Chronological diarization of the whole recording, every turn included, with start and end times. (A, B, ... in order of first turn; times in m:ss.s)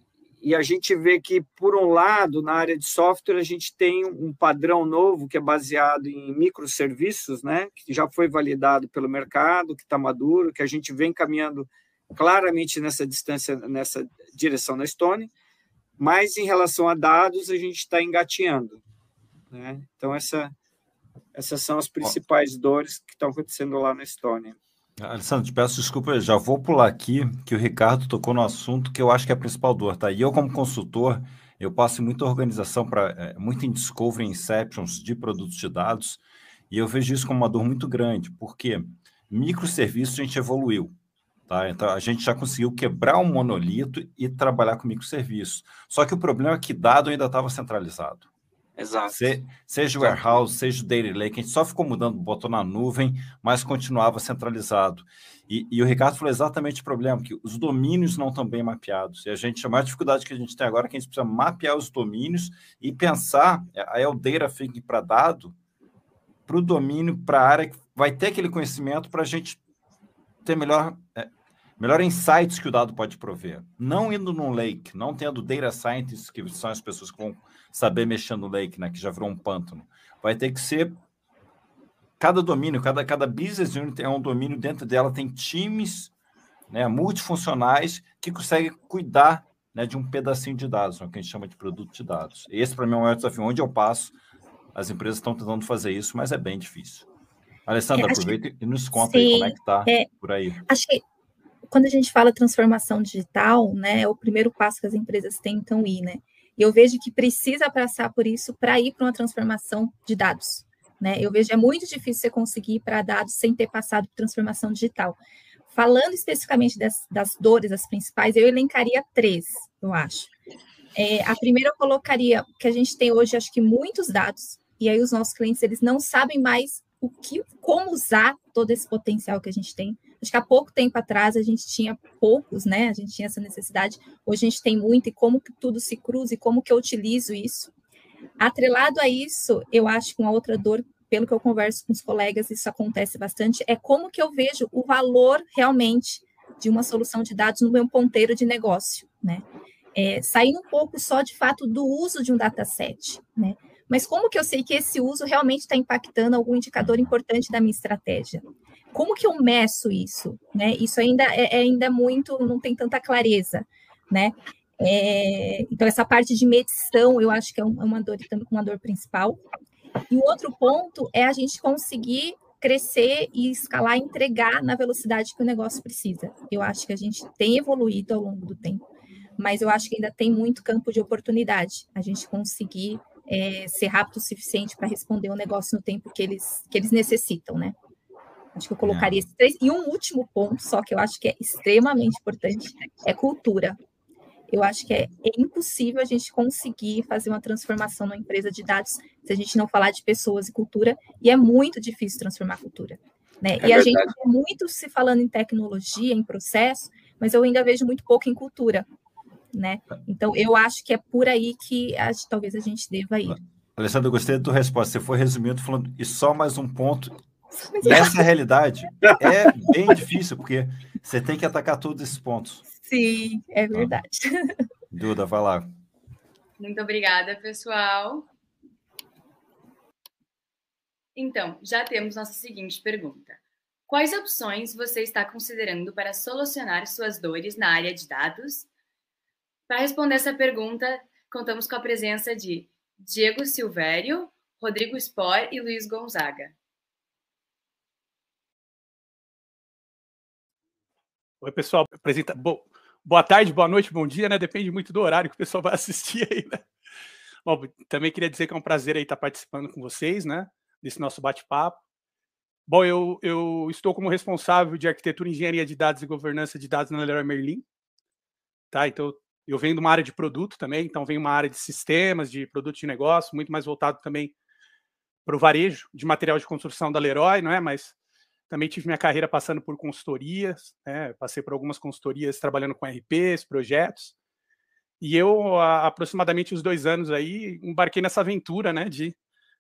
0:00.4-0:15.3 A
0:16.0-0:18.8 A
0:19.5-0:20.5 A
0:21.3-0:24.6 A
0:25.0-0:40.9 B
0:41.5-0:48.3 B
0:48.8-0:49.3 A
0:49.1-1:05.6 B
0:50.0-0:50.4 A
1:06.5-1:09.6 B
1:10.4-1:21.0 B
1:22.2-1:26.1 B
1:26.7-1:34.1 B
1:34.7-1:37.1 B
1:37.7-1:40.6 B
1:38.0-1:38.4 C
1:38.9-1:40.1 C
1:40.7-1:41.0 C
1:41.7-1:55.2 C
1:55.7-2:00.3 C
2:01.0-2:17.7 C
2:18.4-2:49.4 C
2:50.1-2:58.8 C
2:59.4-3:07.8 C
3:08.6-3:13.8 C
3:08.8-3:09.2 B
3:14.5-3:28.8 C
3:23.6-3:24.1 A
3:29.5-3:33.4 C
3:33.2-3:37.2 B
3:37.5-3:38.2 C
3:37.8-3:42.6 B
3:42.7-3:44.5 C
3:44.9-3:45.7 B
3:46.6-3:48.3 D
3:51.2-3:58.7 D
3:59.7-4:06.6 D
4:11.4-4:16.6 E
4:17.4-4:21.8 E
4:22.7-4:27.6 E
4:28.7-4:34.3 E
4:35.2-4:38.0 E
4:38.5-4:44.1 E
4:45.0-4:49.2 E